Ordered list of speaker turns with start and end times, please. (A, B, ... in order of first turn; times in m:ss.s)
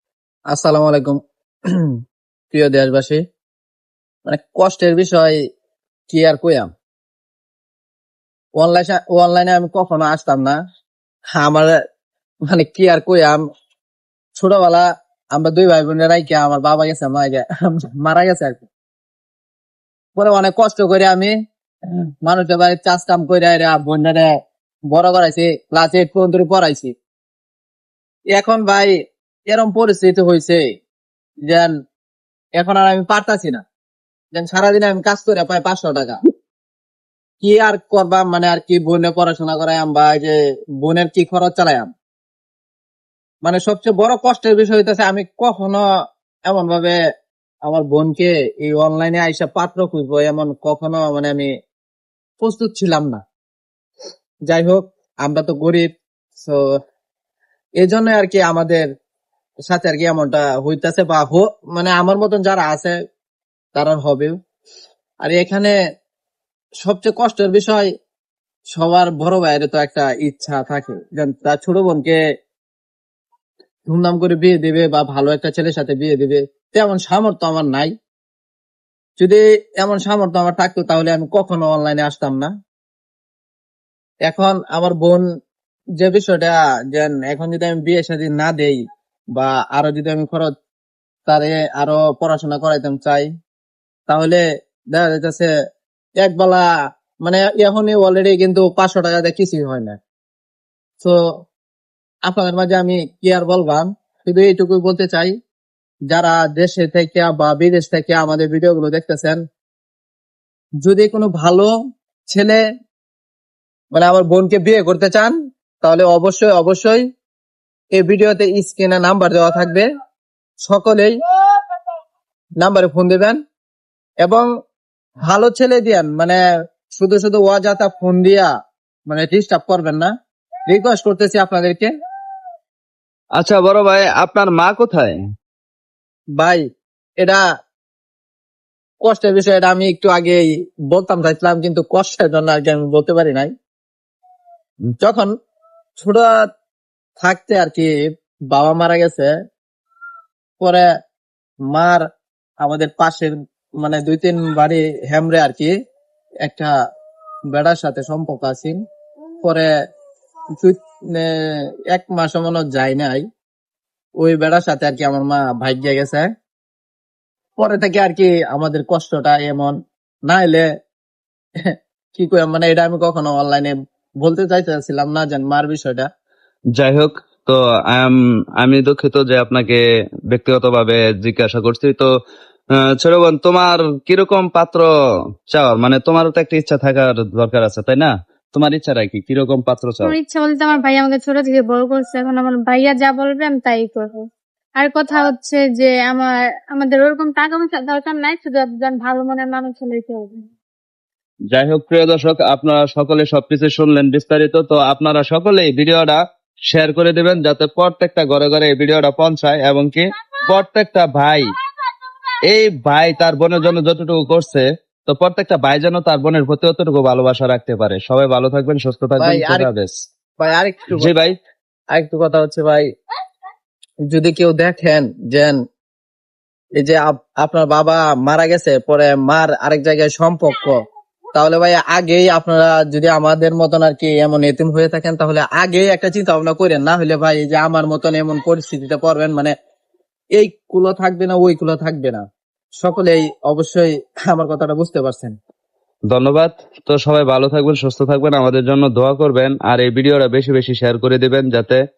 0:00.5-0:01.2 A
0:02.5-0:03.2 A
0:04.3-0:05.4 A
0:06.1-0:06.7 A
0:08.6-0:10.6 A
0:11.4-0:11.8 A
0:12.5-0:13.4 A
0:14.4-0:18.7 A
0:20.2-0:21.3 A
0:22.2-0:24.3 A
0:24.9-0:26.9 A
0:28.3-0:28.9 A
0:29.5-0:30.6 A
0:32.6-0:33.6 A
0:34.3-0:36.2 A
0:37.4-0:41.9 A
0:43.4-0:45.8 A
0:46.5-0:47.0 A
0:47.7-0:51.5 A
0:52.4-0:53.2 A
0:54.5-0:56.6 A
0:57.8-0:58.8 A
0:59.7-1:03.0 A
1:03.8-1:04.4 A
1:05.2-1:05.7 A
1:06.8-1:07.9 A
1:08.7-1:12.2 A
1:13.9-1:17.9 A
1:19.2-1:22.5 A
1:24.3-1:25.2 A
1:26.0-1:28.8 A
1:29.4-1:30.5 A
1:31.3-1:33.3 A
1:34.1-1:34.4 A
1:34.9-1:35.5 A
1:36.2-1:36.7 A
1:37.2-1:40.0 A
1:42.3-1:45.3 A
1:46.1-1:49.4 A
1:50.8-1:51.7 A
1:52.3-1:52.6 A
1:53.9-1:57.0 A
1:57.9-1:59.9 A
2:00.6-2:01.1 A
2:02.6-2:03.4 A
2:05.3-2:06.4 A
2:07.0-2:08.5 A
2:09.1-2:10.1 A
2:10.7-2:11.9 A
2:13.4-2:15.2 B
2:16.4-2:16.6 A
2:19.0-2:23.5 A
2:25.0-2:25.3 A
2:26.0-2:26.3 A
2:27.2-2:29.3 A
2:31.7-2:32.0 A
2:32.6-2:35.7 A
2:36.4-2:36.7 A
2:37.5-2:38.8 A
2:39.4-2:39.7 A
2:40.6-2:41.3 A
2:41.9-2:43.2 A
2:44.2-2:46.3 A
2:47.6-2:49.8 A
2:50.3-2:50.7 A
2:51.6-2:56.1 A
2:56.8-3:02.1 B
3:03.0-3:04.9 B
3:05.5-3:10.2 B
3:10.0-3:14.2 C
3:14.8-3:20.4 C
3:21.5-3:26.2 B
3:26.7-3:31.5 B
3:32.5-3:40.0 B
3:39.2-3:39.7 A
3:40.4-3:41.1 A
3:41.0-3:41.3 B
3:41.9-3:42.8 A
3:44.1-3:45.6 A
3:46.8-3:50.8 A
3:51.4-3:59.5 A
4:00.4-4:02.2 A
4:02.8-4:05.4 A
4:06.1-4:11.8 B